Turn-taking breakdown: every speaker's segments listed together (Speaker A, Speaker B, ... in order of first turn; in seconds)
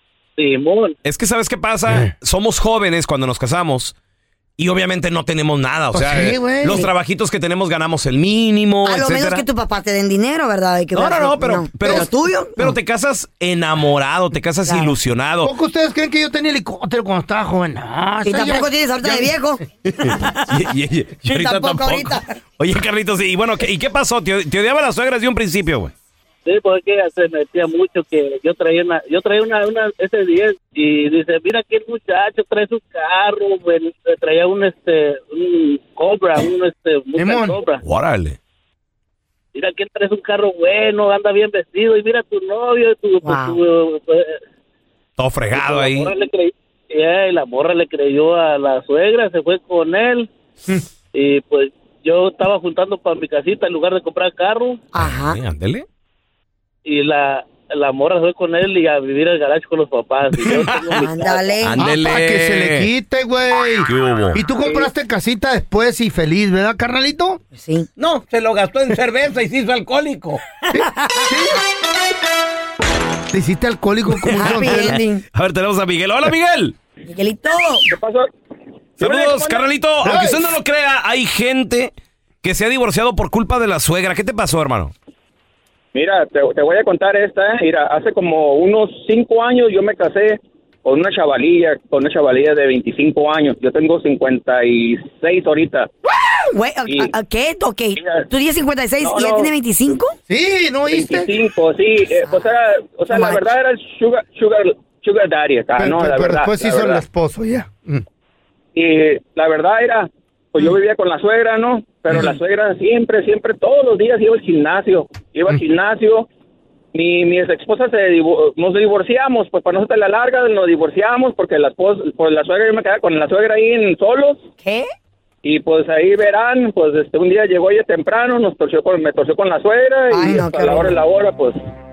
Speaker A: 0.4-0.9, 26.5-37.8, 39.5-44.4, 45.5-50.3, 51.1-54.8, 56.9-61.6
Speaker B: 1.1-3.9, 4.6-9.4, 10.9-15.5, 20.5-25.9, 37.8-38.4, 45.2-46.1, 55.0-55.9, 60.4-60.8, 61.6-62.9, 63.9-64.4, 74.2-76.8, 79.0-84.9
Speaker C: 5.9-6.9, 15.4-19.4, 37.2-37.6, 61.8-67.4, 70.7-71.6, 73.3-75.0, 80.0-80.5, 100.3-101.3, 105.8-108.0
Speaker D: 8.8-12.8, 14.7-14.9, 18.2-20.4, 21.2-22.3, 43.2-43.6, 54.9-55.4, 60.9-61.8, 67.5-67.9, 74.3-75.2, 77.1-77.8, 96.5-100.2, 103.1-103.5, 124.6-124.9, 130.1-130.9
Speaker E: 68.0-70.4
Speaker F: 77.9-78.3, 79.0-79.6, 86.0-95.9, 98.0-98.2, 99.0-99.5, 100.9-107.0, 108.8-116.3, 116.9-124.4, 125.4-131.6